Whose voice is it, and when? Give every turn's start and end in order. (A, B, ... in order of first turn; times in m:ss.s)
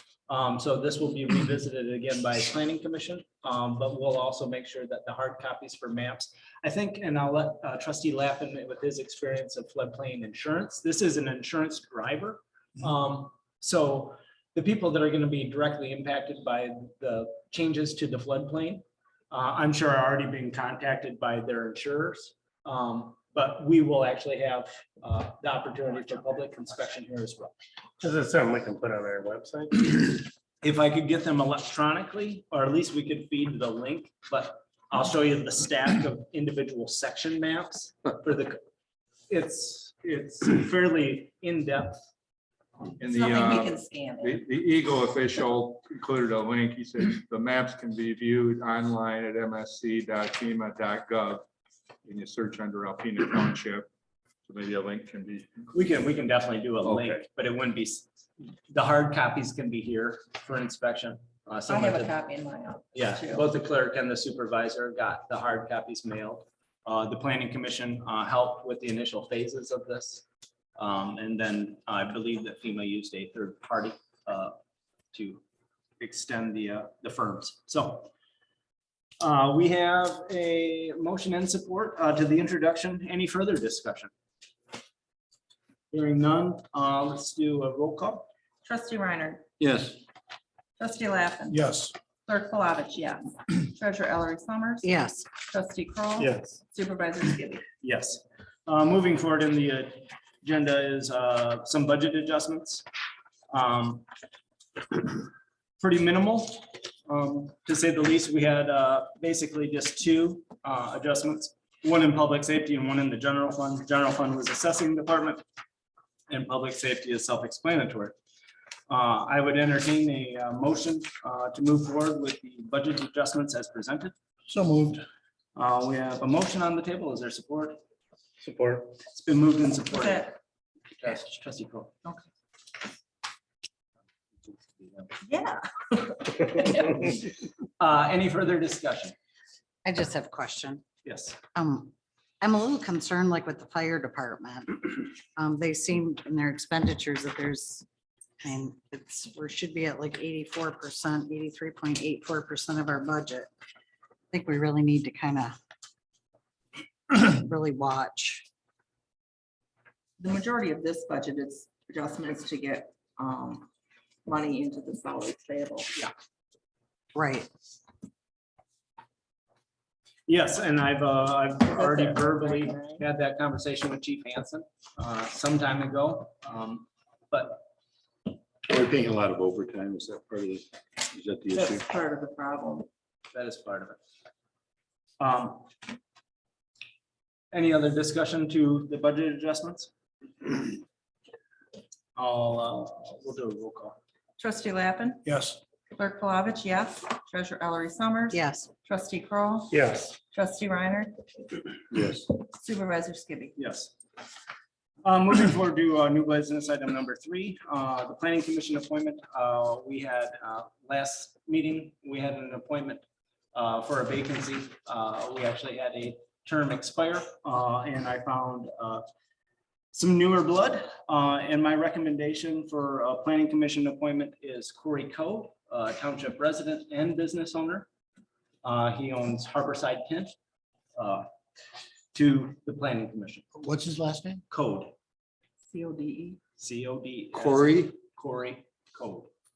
0:00.3-0:27.6 A
0:28.0-0:30.2 B
0:30.6-0:38.6 A
0:39.3-0:42.0 A
0:43.0-0:51.4 C
0:43.0-0:44.4 D
0:52.0-0:53.9 C
0:54.5-0:55.6 C
0:55.7-0:58.1 A
0:58.7-1:02.1 A
1:01.7-1:03.4 D
1:02.9-1:10.2 A
1:10.8-1:14.6 A
1:15.1-1:15.4 A
1:16.0-1:18.1 A
1:19.2-1:24.1 A
1:25.9-1:28.3 A
1:28.6-1:29.4 D
1:29.6-1:30.0 E
1:30.8-1:31.7 D
1:31.5-1:31.9 B
1:32.3-1:34.9 D
1:34.8-1:35.3 F
1:35.4-1:37.7 D
1:36.2-1:36.5 B
1:37.8-1:42.8 A
1:43.5-1:44.1 A
1:45.8-1:55.4 A
1:56.3-1:58.2 A
1:58.9-2:04.2 A
2:04.5-2:05.0 B
2:05.6-2:07.8 A
2:08.4-2:08.9 B
2:09.1-2:10.4 A
2:11.0-2:12.0 A
2:15.2-2:17.0 D
2:17.8-2:19.2 A
2:19.8-2:20.8 F
2:21.0-2:21.4 A
2:21.6-2:27.9 F
2:28.4-2:33.5 F
2:34.3-2:35.6 F
2:37.1-2:38.5 F
2:40.2-2:43.7 D
2:44.3-2:45.9 D
2:47.1-2:47.5 F
2:50.3-2:57.6 A
2:51.7-2:53.0 D
2:58.6-3:01.8 E
3:01.5-3:02.9 D
3:03.3-3:04.0 A
3:05.2-3:05.7 A
3:07.5-3:09.9 A
3:12.2-3:14.0 A
3:14.4-3:15.3 D
3:15.2-3:15.6 B
3:15.9-3:19.8 D
3:18.3-3:18.7 F
3:19.7-3:20.2 B
3:20.3-3:21.2 D
3:21.9-3:22.3 E
3:22.4-3:23.6 D
3:23.6-3:24.0 A
3:25.0-3:33.0 A
3:33.5-3:39.0 A
3:39.9-3:47.9 A
3:48.6-3:50.3 A
3:51.0-3:51.3 A
3:52.1-3:53.4 A
3:53.6-3:54.4 E
3:54.5-3:54.9 A
3:55.7-3:56.4 D
3:56.6-3:59.3 A
3:57.3-3:57.9 E